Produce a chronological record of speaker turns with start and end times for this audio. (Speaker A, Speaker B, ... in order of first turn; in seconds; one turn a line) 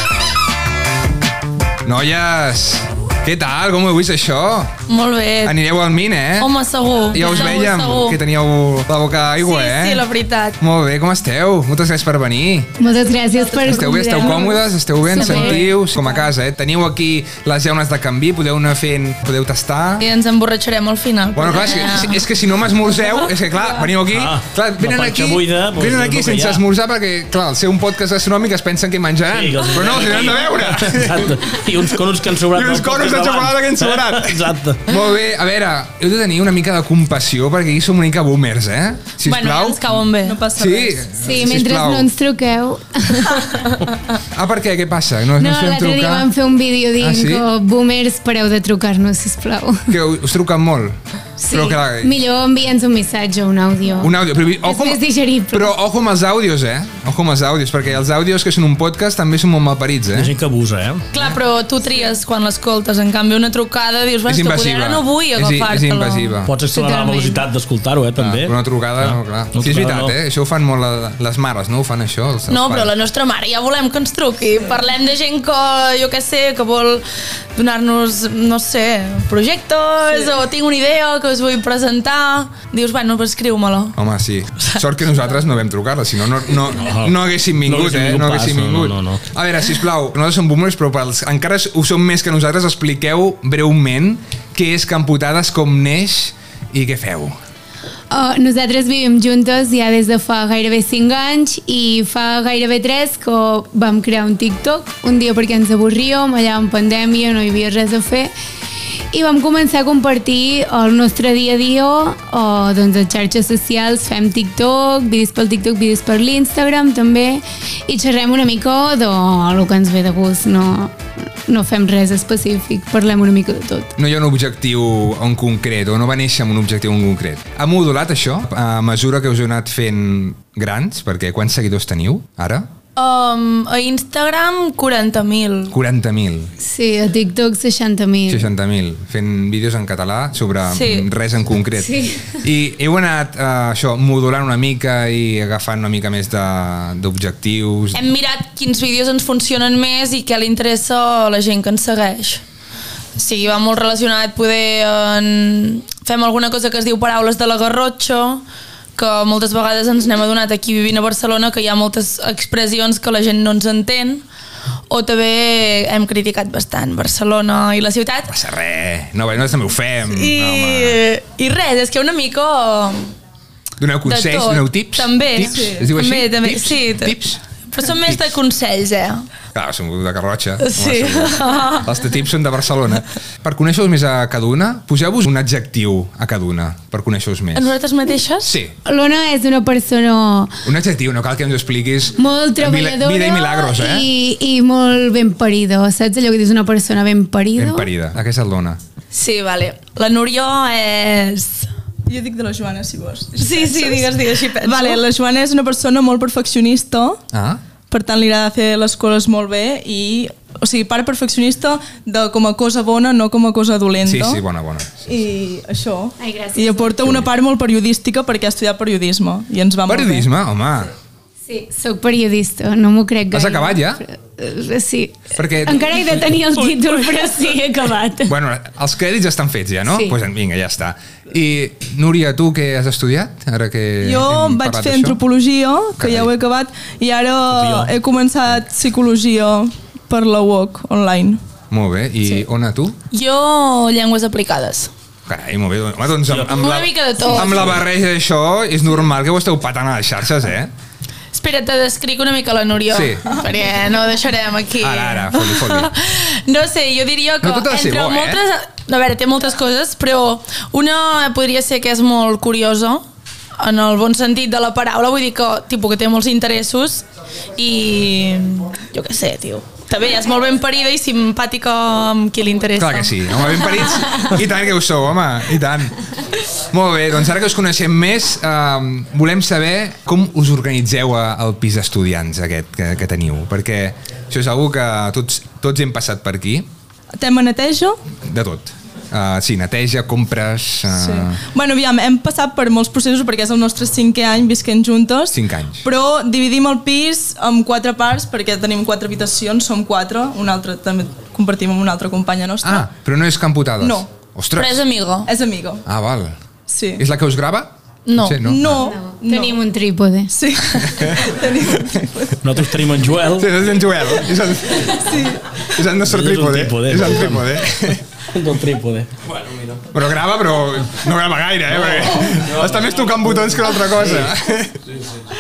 Speaker A: 1.9-4.8
Speaker B: 4.9-5.6
Speaker A: 5.4-6.5
Speaker B: 6.4-8.2
Speaker A: 7.1-10.1
Speaker B: 9.4-10.6
Speaker A: 10.6-12.7
Speaker C: 12.8-15.8
Speaker A: 13.6-20.1
Speaker D: 15.3-15.6
Speaker B: 20.0-22.2
Speaker A: 21.3-31.6
Speaker D: 24.1-26.6
Speaker D: 29.3-34.8
Speaker A: 32.5-39.8
Speaker B: 39.2-40.4
Speaker E: 40.2-41.1
Speaker A: 40.6-42.1
Speaker C: 41.2-43.7
Speaker A: 44.3-46.3
Speaker C: 45.4-49.9
Speaker A: 47.0-47.5
Speaker A: 49.9-52.2
Speaker C: 51.4-55.7
Speaker A: 54.0-60.3
Speaker D: 60.1-61.0
Speaker B: 61.1-67.4
Speaker A: 64.3-66.5
Speaker D: 66.5-70.1
Speaker A: 68.2-72.9
Speaker B: 72.5-84.0
Speaker A: 84.0-97.4
Speaker D: 86.8-89.2
Speaker C: 98.1-108.3
Speaker C: 109.1-123.9
Speaker A: 124.0-132.7
Speaker B: 133.0-135.8
Speaker A: 135.7-136.5
Speaker C: 136.6-138.5
Speaker A: 138.3-148.0
Speaker B: 140.7-141.1
Speaker C: 141.8-142.4
Speaker B: 147.9-152.4
Speaker B: 153.2-158.4
Speaker B: 159.0-164.2
Speaker B: 164.9-168.3
Speaker A: 168.3-171.0
Speaker B: 170.1-173.1
Speaker A: 173.8-178.3
Speaker B: 174.1-179.3
Speaker E: 175.5-175.9
Speaker A: 179.5-187.7
Speaker B: 180.6-181.9
Speaker B: 187.6-188.6
Speaker A: 188.4-188.8
Speaker C: 188.8-190.5
Speaker A: 190.6-194.1
Speaker C: 192.2-197.9
Speaker A: 197.6-198.8
Speaker B: 199.1-201.7
Speaker E: 202.1-207.2
Speaker B: 203.4-205.0
Speaker A: 207.3-207.6
Speaker E: 207.9-214.4
Speaker A: 214.0-215.2
Speaker E: 215.1-220.3
Speaker C: 216.2-217.3
Speaker A: 219.9-220.9
Speaker C: 221.5-228.3
Speaker A: 223.3-224.0
Speaker A: 225.4-226.2
Speaker A: 228.3-235.2
Speaker C: 229.9-230.2
Speaker E: 234.0-241.4
Speaker A: 236.0-236.3
Speaker D: 237.5-237.9
Speaker A: 241.7-243.0
Speaker B: 243.1-244.9
Speaker A: 245.3-250.7
Speaker B: 246.5-247.8
Speaker B: 251.3-263.1
Speaker A: 252.9-253.3
Speaker A: 254.8-255.9
Speaker A: 257.4-258.4
Speaker B: 263.6-267.1
Speaker B: 267.6-274.2
Speaker A: 272.8-276.0
Speaker A: 276.7-286.7
Speaker E: 287.1-288.0
Speaker A: 288.2-291.4
Speaker E: 290.9-302.9
Speaker A: 295.3-295.9
Speaker A: 302.6-304.8
Speaker E: 303.8-304.1
Speaker B: 304.6-305.3
Speaker E: 305.3-305.8
Speaker A: 305.9-306.4
Speaker E: 306.7-307.0
Speaker A: 307.0-308.9
Speaker B: 308.1-308.4
Speaker E: 308.4-309.6
Speaker C: 308.7-310.3
Speaker E: 310.3-312.8
Speaker A: 311.0-311.2
Speaker D: 312.4-313.5
Speaker A: 313.4-315.0
Speaker E: 315.0-315.5
Speaker A: 315.7-318.0
Speaker D: 316.0-317.5
Speaker D: 318.2-319.1
Speaker A: 319.9-324.8
Speaker D: 321.8-322.9